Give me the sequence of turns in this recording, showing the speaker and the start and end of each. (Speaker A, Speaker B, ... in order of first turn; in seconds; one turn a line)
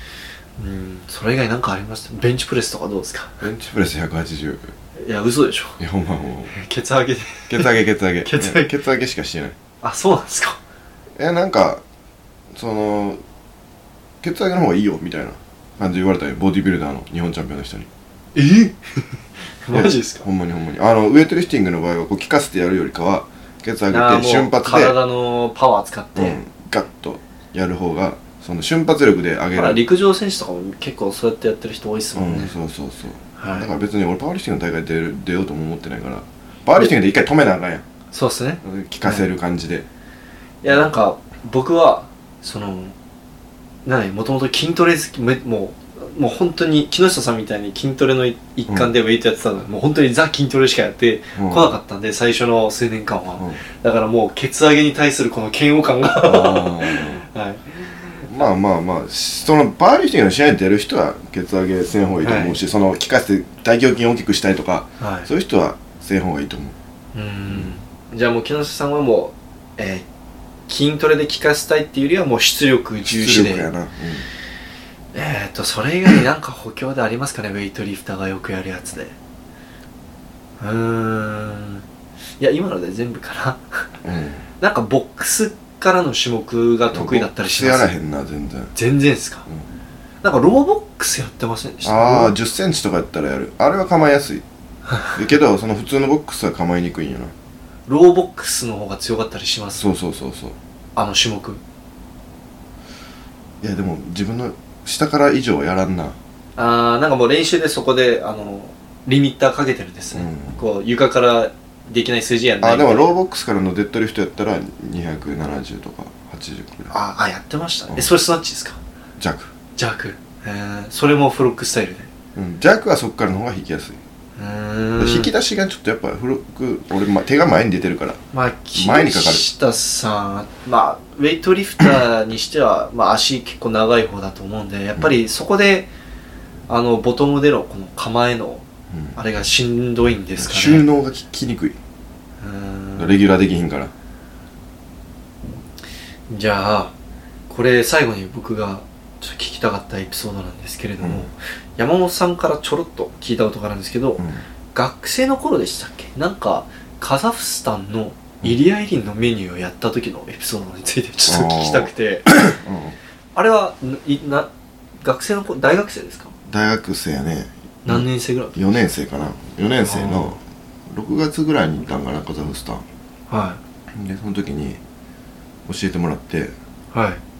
Speaker A: 0.6-3.4
Speaker B: 3.4-4.7
Speaker A: 5.0-5.8
Speaker B: 5.8-6.5
Speaker A: 6.5-8.7
Speaker B: 7.5-9.6
Speaker A: 9.8-10.6
Speaker B: 11.2-11.8
Speaker B: 12.5-13.2
Speaker B: 14.2-17.9
Speaker A: 18.3-20.2
Speaker B: 19.7-25.0
Speaker A: 23.9-26.4
Speaker B: 26.1-29.8
Speaker A: 29.5-32.5
Speaker B: 32.1-37.8
Speaker A: 33.4-33.7
Speaker A: 38.1-39.2
Speaker B: 38.6-39.9
Speaker A: 40.6-42.9
Speaker A: 43.8-58.5
Speaker B: 51.3-51.7
Speaker B: 56.2-57.2
Speaker B: 58.2-66.8
Speaker A: 62.2-62.5
Speaker A: 65.0-65.3
Speaker A: 67.1-70.0
Speaker A: 70.7-73.7
Speaker B: 73.0-74.3
Speaker A: 75.1-79.1
Speaker A: 80.6-81.8
Speaker A: 82.4-83.9
Speaker B: 84.0-84.5
Speaker A: 84.6-87.9
Speaker B: 86.9-88.7
Speaker A: 88.7-89.5
Speaker A: 90.2-92.3
Speaker B: 91.8-94.4
Speaker B: 95.1-97.3
Speaker A: 97.9-99.8
Speaker B: 99.8-100.5
Speaker A: 101.0-101.6
Speaker B: 103.6-106.2
Speaker A: 106.6-113.1
Speaker B: 110.1-110.6
Speaker B: 112.6-116.9
Speaker A: 116.9-118.8
Speaker B: 119.2-119.5
Speaker A: 119.8-122.1
Speaker B: 122.3-124.0
Speaker A: 124.3-125.3
Speaker B: 125.0-128.2
Speaker A: 128.3-135.9
Speaker B: 128.7-129.4
Speaker A: 136.7-140.8
Speaker B: 140.4-141.8
Speaker A: 142.4-143.1
Speaker B: 143.0-143.9
Speaker A: 146.3-146.9
Speaker A: 147.5-162.3
Speaker B: 151.0-151.3
Speaker B: 154.2-154.4
Speaker B: 161.3-163.0
Speaker A: 163.3-164.5
Speaker A: 165.0-166.3
Speaker B: 166.5-172.8
Speaker A: 167.8-168.7
Speaker A: 169.8-170.3
Speaker A: 173.3-173.6
Speaker B: 173.9-174.8
Speaker B: 175.7-176.5
Speaker A: 176.9-177.2